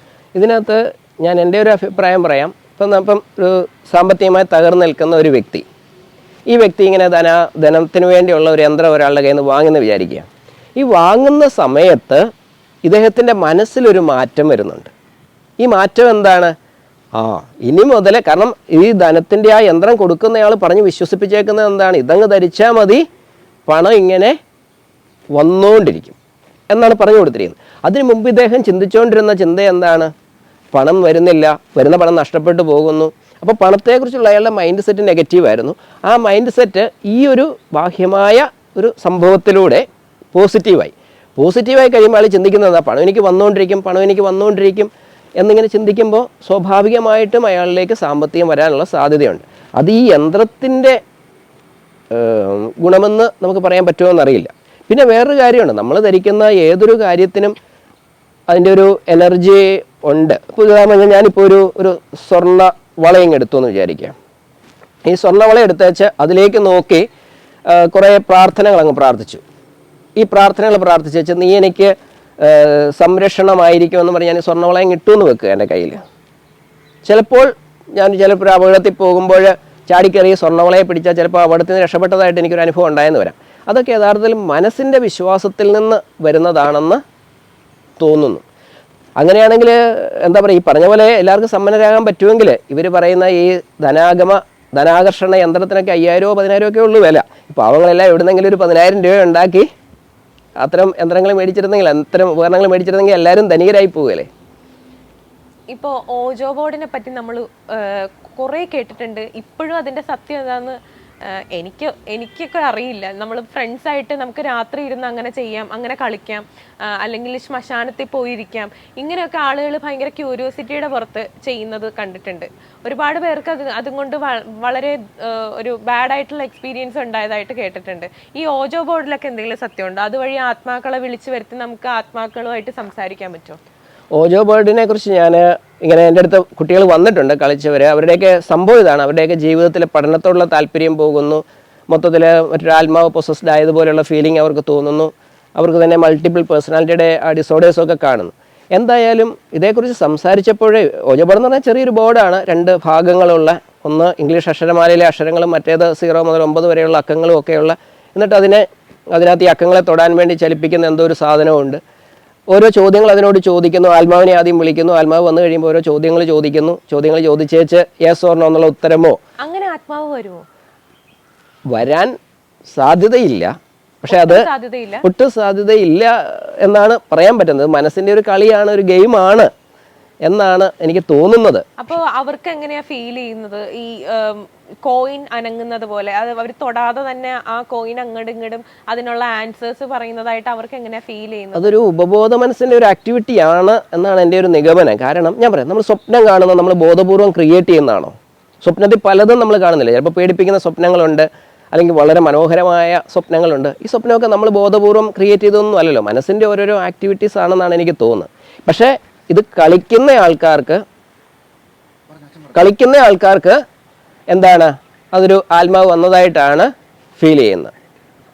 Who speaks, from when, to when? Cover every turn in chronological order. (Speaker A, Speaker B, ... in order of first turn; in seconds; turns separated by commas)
Speaker A: 0.3-5.7, Speaker A: 6.5-12.2, Speaker A: 12.8-14.9, Speaker A: 15.6-16.5, Speaker A: 17.1-23.0, Speaker A: 23.7-24.4, Speaker A: 25.4-26.2, Speaker A: 26.7-30.1, Speaker A: 30.7-51.0, Speaker A: 52.1-57.5, Speaker A: 58.5-64.2, Speaker A: 65.1-67.1, Speaker A: 67.7-69.4, Speaker A: 70.2-76.0, Speaker A: 77.0-87.0, Speaker A: 88.0-88.4, Speaker A: 89.2-99.7, Speaker A: 100.6-104.3, Speaker B: 105.7-133.6, Speaker A: 134.1-161.8, Speaker A: 162.5-169.2, Speaker B: 169.4-170.4, Speaker A: 171.7-172.1, Speaker A: 172.7-174.5, Speaker B: 174.1-175.1, Speaker A: 175.0-179.5, Speaker A: 180.2-181.7, Speaker B: 181.8-191.7, Speaker A: 191.6-210.8, Speaker A: 212.5-213.6, Speaker A: 214.3-217.7